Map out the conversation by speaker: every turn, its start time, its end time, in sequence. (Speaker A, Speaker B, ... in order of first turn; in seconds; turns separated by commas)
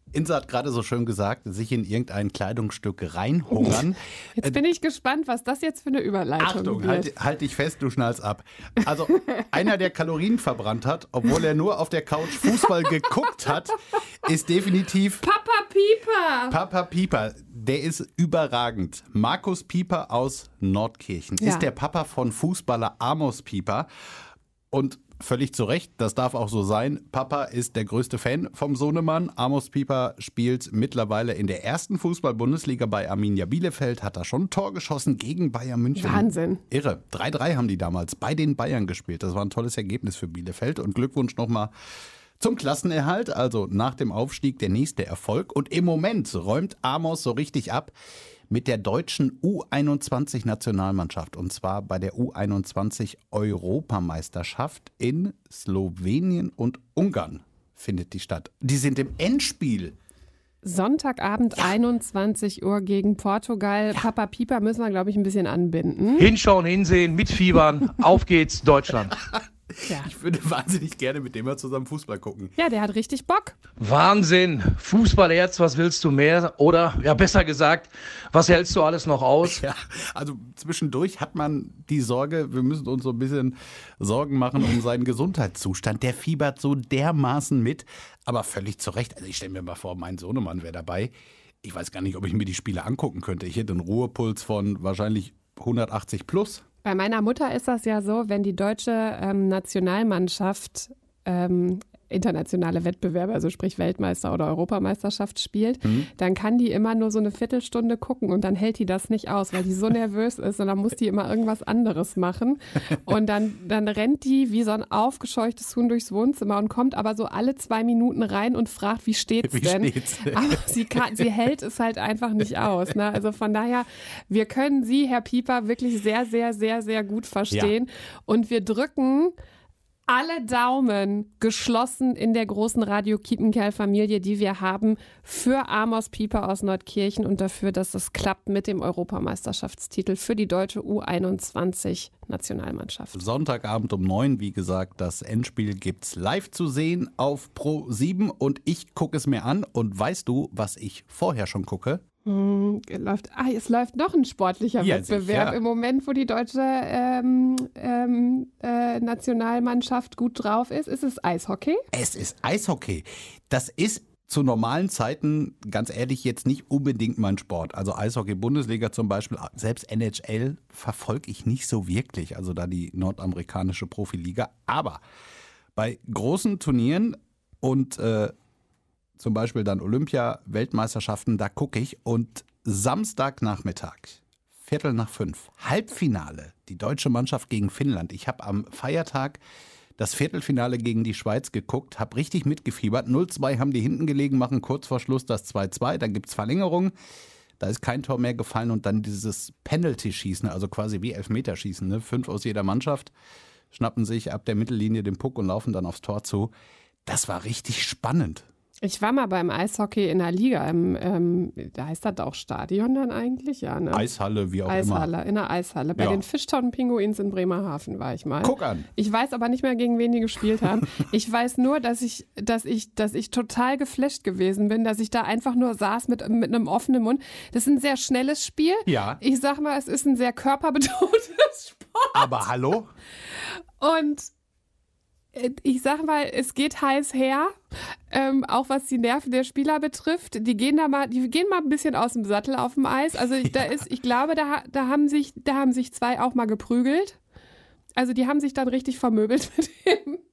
Speaker A: 0.1-4.6, Speaker B: 4.4-7.1, Speaker A: 6.4-15.2, Speaker B: 15.2-16.6, Speaker A: 16.5-23.9, Speaker A: 24.7-41.7, Speaker B: 36.0-36.6, Speaker A: 42.4-47.9, Speaker A: 48.5-60.0, Speaker B: 60.6-66.3, Speaker C: 66.2-69.2, Speaker A: 69.2-72.5, Speaker B: 72.6-73.6, Speaker C: 73.8-79.6, Speaker A: 79.4-91.1, Speaker A: 91.6-96.6, Speaker B: 96.8-129.3, Speaker A: 105.8-106.1, Speaker A: 119.5-121.2, Speaker B: 130.1-143.2, Speaker A: 143.1-152.0, Speaker B: 152.3-161.8, Speaker A: 154.8-155.6, Speaker A: 161.9-175.0, Speaker A: 175.8-178.3, Speaker A: 179.2-189.4, Speaker A: 190.0-196.9, Speaker A: 197.6-203.1, Speaker A: 203.7-206.5, Speaker A: 207.1-208.5, Speaker B: 208.8-214.1, Speaker A: 213.9-215.1, Speaker B: 214.7-232.4, Speaker A: 216.0-216.2, Speaker A: 218.4-218.9, Speaker A: 228.9-229.2, Speaker A: 232.1-232.9, Speaker B: 233.5-234.3, Speaker B: 235.3-237.5, Speaker B: 238.1-247.2, Speaker A: 243.4-243.8, Speaker B: 248.0-250.2